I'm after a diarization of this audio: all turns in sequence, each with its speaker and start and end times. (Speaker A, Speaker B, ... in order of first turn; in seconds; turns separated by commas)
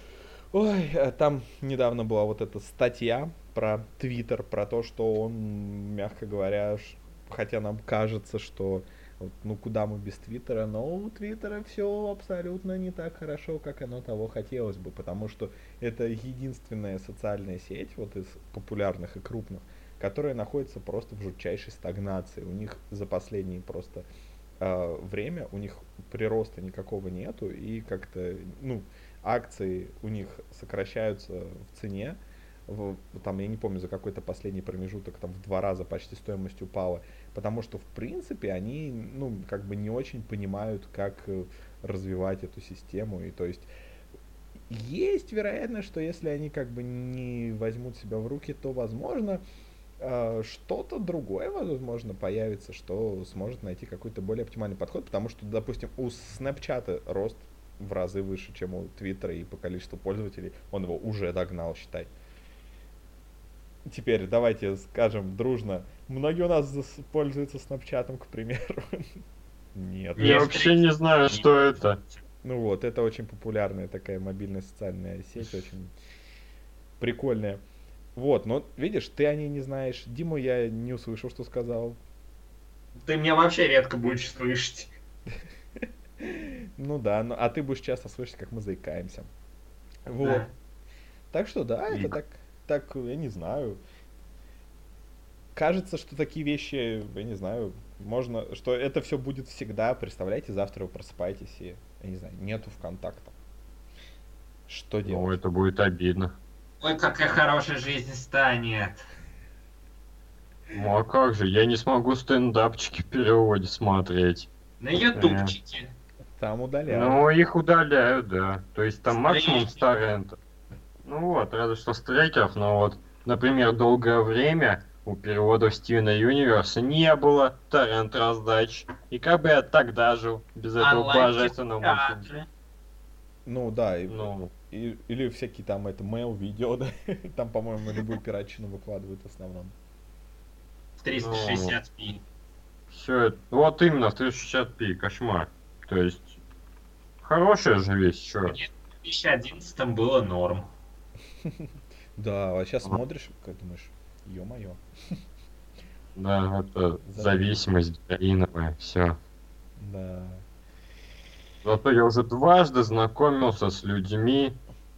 Speaker A: 0.5-24.0, Speaker A: 24.6-43.7, Speaker A: 44.7-49.4, Speaker A: 50.0-62.1, Speaker A: 63.9-69.1, Speaker A: 69.7-70.6, Speaker B: 70.2-70.8, Speaker C: 70.2-72.0, Speaker A: 72.4-75.9, Speaker A: 77.0-77.6, Speaker A: 78.1-82.0, Speaker B: 83.0-84.9, Speaker A: 85.8-89.3, Speaker A: 90.1-90.5, Speaker B: 90.2-90.5, Speaker A: 91.3-93.8, Speaker C: 91.9-92.1, Speaker A: 95.5-103.3, Speaker A: 104.7-105.3, Speaker C: 105.0-106.3, Speaker B: 106.8-109.0, Speaker C: 110.7-115.5, Speaker B: 114.8-115.9, Speaker A: 116.4-117.2, Speaker C: 116.9-120.4, Speaker B: 119.1-119.8, Speaker C: 121.0-132.2, Speaker B: 130.8-132.5, Speaker A: 133.4-139.7, Speaker C: 134.1-134.5, Speaker B: 141.0-142.2, Speaker C: 141.1-141.8, Speaker C: 142.9-146.3, Speaker C: 147.2-148.6, Speaker B: 148.4-150.7, Speaker A: 151.4-154.8, Speaker C: 156.2-159.2, Speaker A: 157.1-157.6, Speaker A: 159.8-160.4, Speaker C: 161.6-164.6